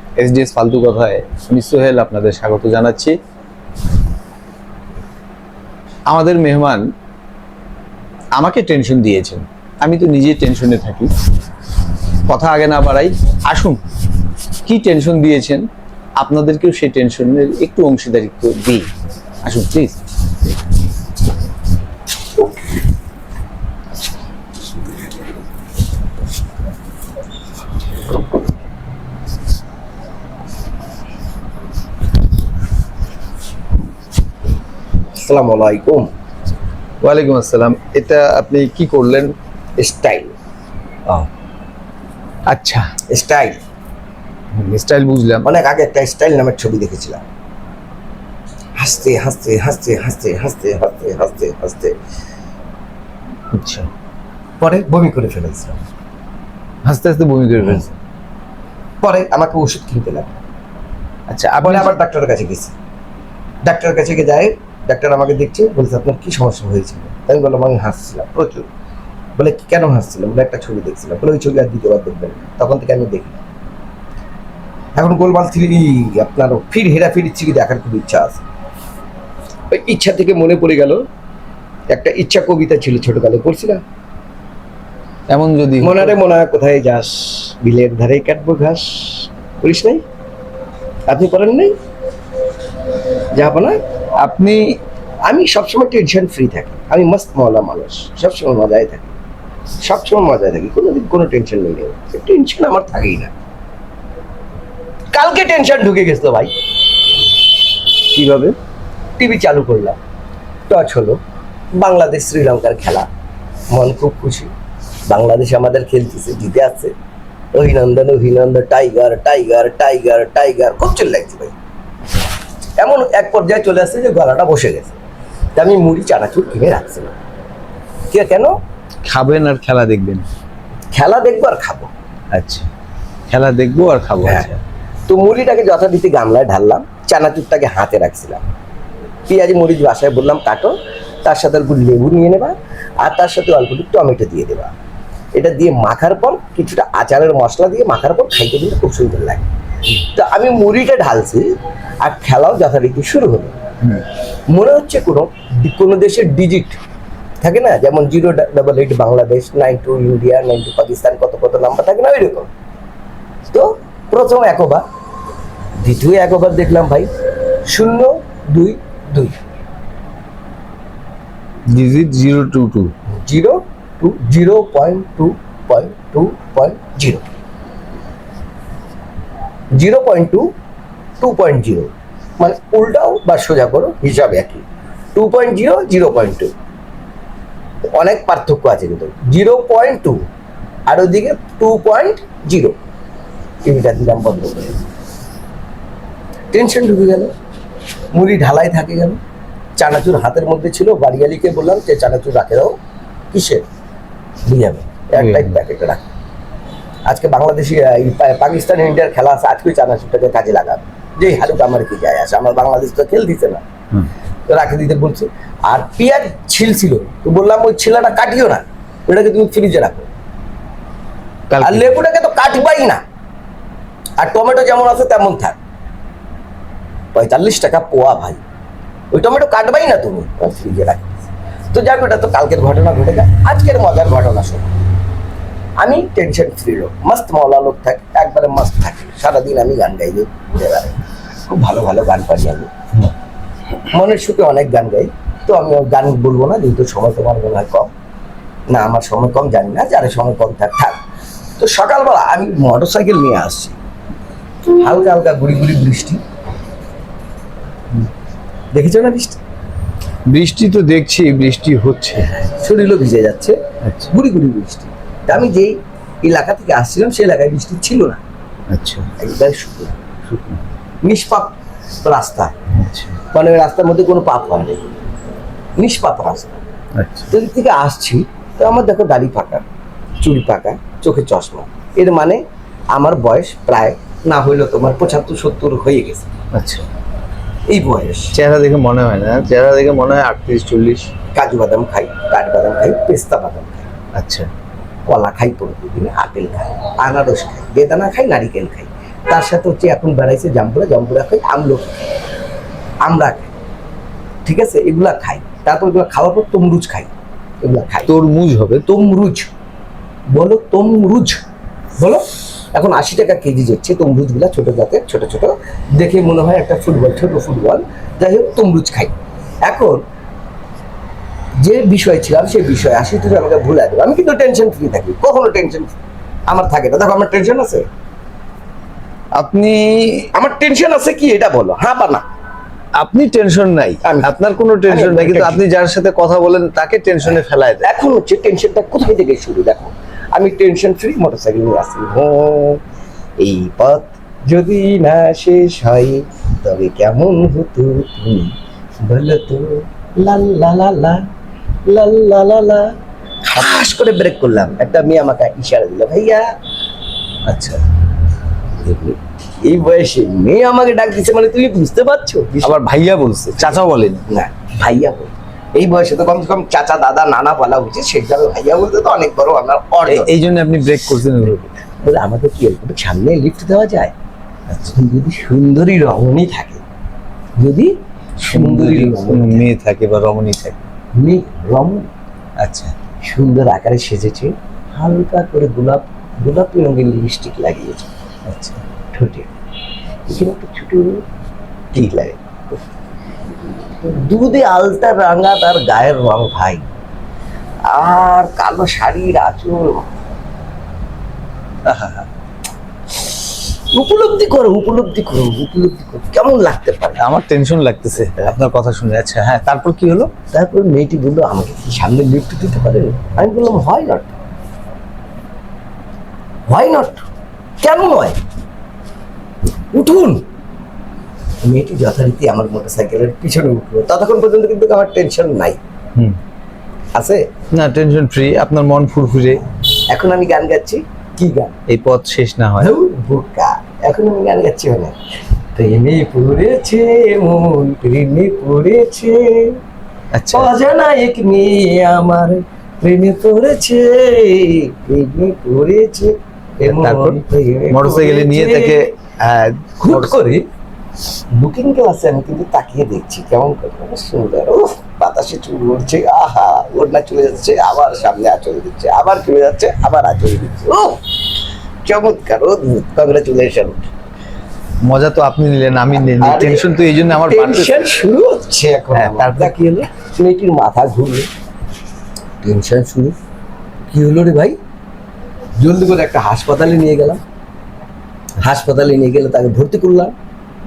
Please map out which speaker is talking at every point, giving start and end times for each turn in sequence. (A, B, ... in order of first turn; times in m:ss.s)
0:00.2-0:03.2 A
0:06.1-0:06.8 A
0:08.4-0:11.1 A
0:12.3-0:13.8 A
0:14.6-0:15.6 A
0:16.2-0:18.9 A
0:19.4-0:20.0 A
0:35.2-0:36.1 B
0:37.0-0:39.3 A
0:39.8-0:40.3 B
0:42.5-0:42.9 A
0:43.1-0:43.6 B
0:44.6-0:45.5 A
0:45.4-0:47.2 B
0:48.8-0:51.9 B
0:53.5-0:53.9 A
0:54.6-0:55.8 B
0:56.8-0:57.9 A
0:59.0-1:00.4 B
1:01.3-1:02.0 A
1:01.6-1:02.7 B
1:03.6-1:08.7 B
1:09.4-1:13.4 B
1:15.0-1:18.4 B
1:19.7-1:21.0 B
1:21.9-1:23.8 B
1:25.3-1:26.1 A
1:25.8-1:30.0 B
1:31.1-1:31.7 B
1:33.3-1:33.8 B
1:34.2-1:34.8 A
1:35.2-1:39.1 B
1:39.8-1:43.3 B
1:45.1-1:46.5 B
1:48.1-1:48.6 A
1:49.2-1:50.0 B
1:50.7-1:51.2 B
1:51.8-1:53.1 B
1:53.7-1:54.5 B
1:55.1-1:56.9 B
1:57.6-2:01.5 B
2:02.8-2:05.0 B
2:05.6-2:07.1 B
2:08.1-2:08.5 B
2:09.1-2:10.2 A
2:10.9-2:11.9 B
2:12.3-2:12.7 A
2:13.3-2:14.6 A
2:14.2-2:14.5 B
2:15.1-2:18.4 B
2:19.3-2:24.7 B
2:25.4-2:29.5 B
2:30.1-2:31.5 B
2:32.0-2:33.6 B
2:34.5-2:36.8 B
2:37.4-2:42.5 B
2:43.5-2:44.8 B
2:45.8-2:47.1 B
2:47.7-2:49.4 B
2:51.7-2:52.9 A
2:53.2-2:57.2 B
2:59.8-3:00.5 B
3:01.2-3:04.6 B
3:05.2-3:06.5 B
3:08.0-3:10.2 B
3:10.9-3:12.8 B
3:13.6-3:14.8 B
3:16.5-3:17.3 B
3:18.1-3:19.2 B
3:19.8-3:22.8 B
3:23.3-3:23.6 B
3:24.5-3:26.0 B
3:25.2-3:25.6 A
3:27.1-3:33.6 B
3:34.5-3:40.1 B
3:41.5-3:41.9 A
3:41.6-3:43.0 B
3:44.2-3:45.6 B
3:47.1-3:48.4 B
3:49.1-3:54.8 B
3:55.8-4:02.7 B
4:03.9-4:07.9 B
4:08.7-4:11.0 B
4:11.6-4:13.8 B
4:14.7-4:16.2 B
4:18.7-4:19.4 B
4:20.3-4:22.3 A
4:22.3-4:23.6 B
4:23.8-4:24.1 A
4:24.1-4:28.2 B
4:28.7-4:29.1 A
4:29.2-4:30.0 B
4:30.3-4:30.6 A
4:31.0-4:31.5 B
4:32.0-4:32.5 B
4:32.8-4:33.2 A
4:33.3-4:34.8 B
4:35.8-4:36.6 B
4:37.0-4:37.3 A
4:37.3-4:39.6 B
4:40.2-4:42.4 B
4:42.9-4:46.3 B
4:46.5-4:46.9 A
4:47.7-4:48.3 B
4:48.3-4:51.1 A
4:51.3-4:53.9 B
4:54.2-4:54.5 A
4:55.1-5:02.0 B
5:03.0-5:03.5 B
5:04.4-5:07.1 B
5:07.6-5:08.1 B
5:08.1-5:08.8 A
5:08.8-5:09.5 B
5:10.3-5:11.4 B
5:12.0-5:19.1 B
5:19.7-5:20.0 B
5:21.6-5:25.9 B
5:26.5-5:27.9 B
5:29.4-5:30.3 A
5:30.3-5:32.2 B
5:33.0-5:37.9 A
5:34.0-5:34.3 B
5:34.9-5:35.6 B
5:37.8-5:42.8 B
5:43.4-5:48.5 B
5:49.1-5:51.2 B
5:51.9-5:52.9 B
5:53.4-5:56.5 B
5:57.5-5:57.8 A
5:58.8-6:02.8 B
6:02.6-6:04.2 A
6:03.6-6:10.3 B
6:10.1-6:11.6 A
6:12.0-6:14.1 B
6:14.8-6:16.8 B
6:17.6-6:19.7 B
6:18.5-6:20.8 A
6:21.2-6:22.1 B
6:22.6-6:23.0 A
6:23.2-6:28.1 B
6:28.5-6:28.8 A
6:29.1-6:29.5 B
6:30.3-6:31.2 B
6:31.9-6:32.8 B
6:34.0-6:36.9 B
6:37.9-6:40.1 B
6:41.8-6:42.3 A
6:43.9-6:47.2 B
6:47.2-6:50.3 A
6:50.5-6:54.3 B
6:56.7-6:57.2 B
6:57.8-6:58.4 B
6:59.9-7:00.4 B
7:01.6-7:05.8 B
7:07.2-7:07.4 B
7:07.7-7:09.6 A
7:10.1-7:11.8 B
7:11.9-7:12.9 A
7:12.8-7:15.2 B
7:15.8-7:19.8 B
7:20.3-7:20.7 A
7:20.5-7:29.0 B
7:26.9-7:27.4 A
7:27.9-7:30.4 A
7:30.0-7:30.6 B
7:31.6-7:41.2 B
7:42.0-7:44.1 B
7:45.0-7:48.0 A
7:46.4-7:51.5 B
7:49.1-7:49.9 A
7:52.6-7:53.4 B
7:54.1-7:54.8 B
7:55.8-7:57.4 B
7:58.6-8:00.3 B